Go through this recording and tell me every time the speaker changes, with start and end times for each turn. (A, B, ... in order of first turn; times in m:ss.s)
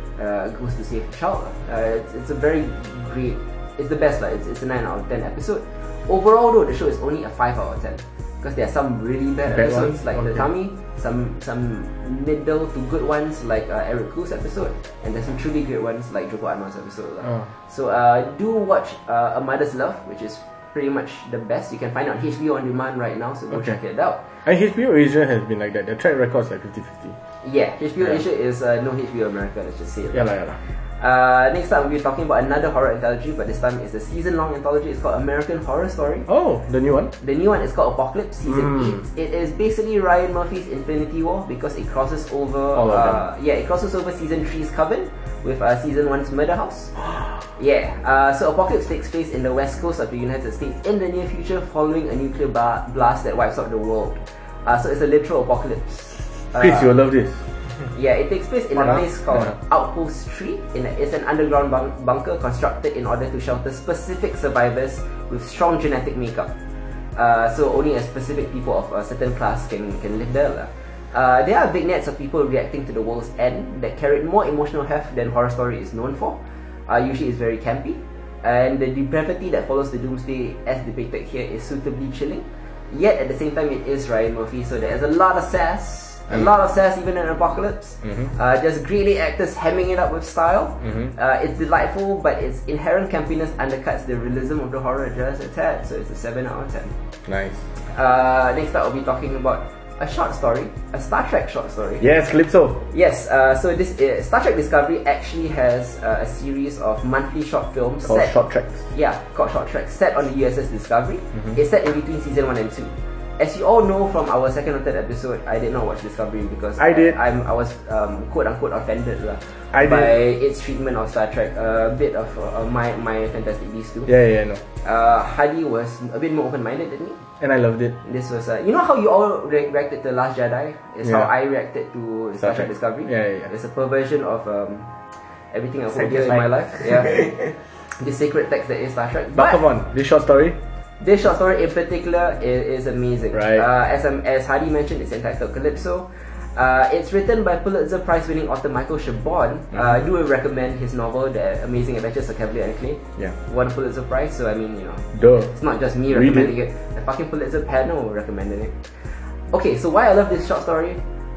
0:00.2-0:24.2 A
0:09.5-0:10.5 B
0:23.5-0:23.8 B
0:24.4-0:27.1 B
0:27.4-0:30.3 A
0:30.1-0:30.6 B
0:31.0-0:36.3 A
0:36.3-0:37.1 B
0:37.2-0:56.9 A
0:38.5-0:39.0 B
0:42.7-0:43.2 B
0:56.5-0:57.4 B
0:57.9-1:06.5 A
0:58.8-0:59.5 B
1:07.1-1:36.9 A
1:28.0-1:28.3 B
1:30.8-1:31.1 B
1:37.2-1:37.6 B
1:37.8-1:42.0 A
1:42.0-1:42.9 B
1:42.9-1:48.4 A
1:48.0-1:48.9 B
1:48.9-2:04.1 A
1:56.8-1:57.2 B
1:59.7-2:00.2 B
2:04.0-2:04.6 B
2:04.8-2:07.2 A
2:07.4-2:08.0 B
2:08.0-2:14.9 A
2:11.0-2:11.3 B
2:12.4-2:13.5 B
2:15.5-2:19.6 A
2:16.0-2:16.4 B
2:19.3-2:20.6 B
2:21.0-2:38.9 A
2:23.3-2:23.6 B
2:35.1-2:35.5 B
2:36.1-2:36.5 B
2:39.5-2:41.0 A